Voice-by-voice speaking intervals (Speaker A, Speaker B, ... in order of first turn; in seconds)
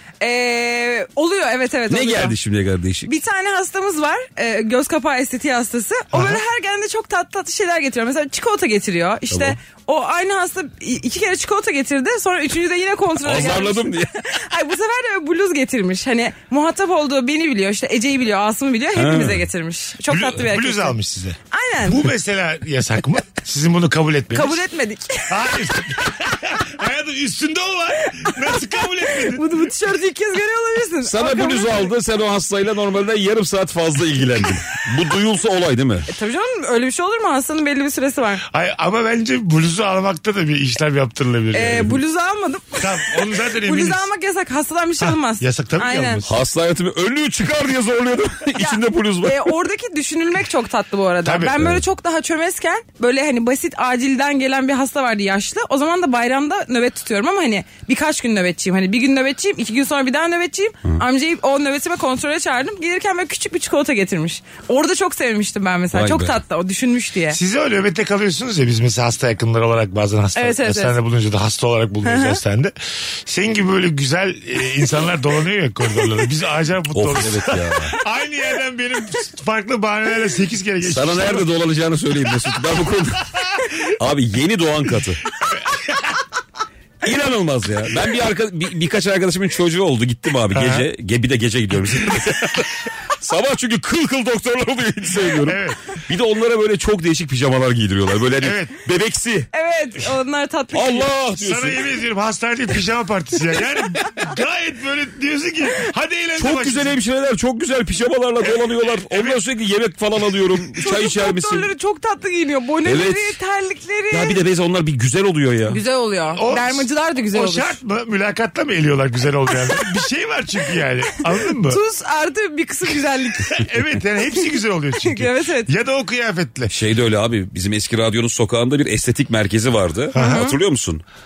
Speaker A: 0.2-2.4, 3.1-21.0, 21.5-22.1, 24.3-25.4, 28.1-31.9, 36.1-38.4, 41.5-46.2, 48.6-67.4, 70.4-71.0, 72.1-72.4, 99.5-101.1, 110.8-114.4, 115.7-117.8, 121.5-123.7, 125.0-125.7, 130.1-130.6
Speaker B: 1.9-3.1, 9.3-9.6, 13.2-14.2, 18.9-19.5, 31.1-36.1, 46.2-49.5, 65.9-66.4, 76.9-78.0, 80.8-85.3, 87.0-99.5, 100.7-101.8, 106.4-111.7, 112.8-113.4, 114.1-115.8, 126.7-131.0
Speaker C: 20.1-24.6, 25.3-29.6, 38.5-42.0, 42.8-44.0, 45.0-46.3, 51.2-51.8, 67.3-72.7, 73.3-81.5, 85.4-86.2, 90.5-90.9, 95.4-95.8, 98.4-98.8, 101.4-107.0, 108.4-109.4, 116.3-121.8, 123.5-126.7, 130.1-130.4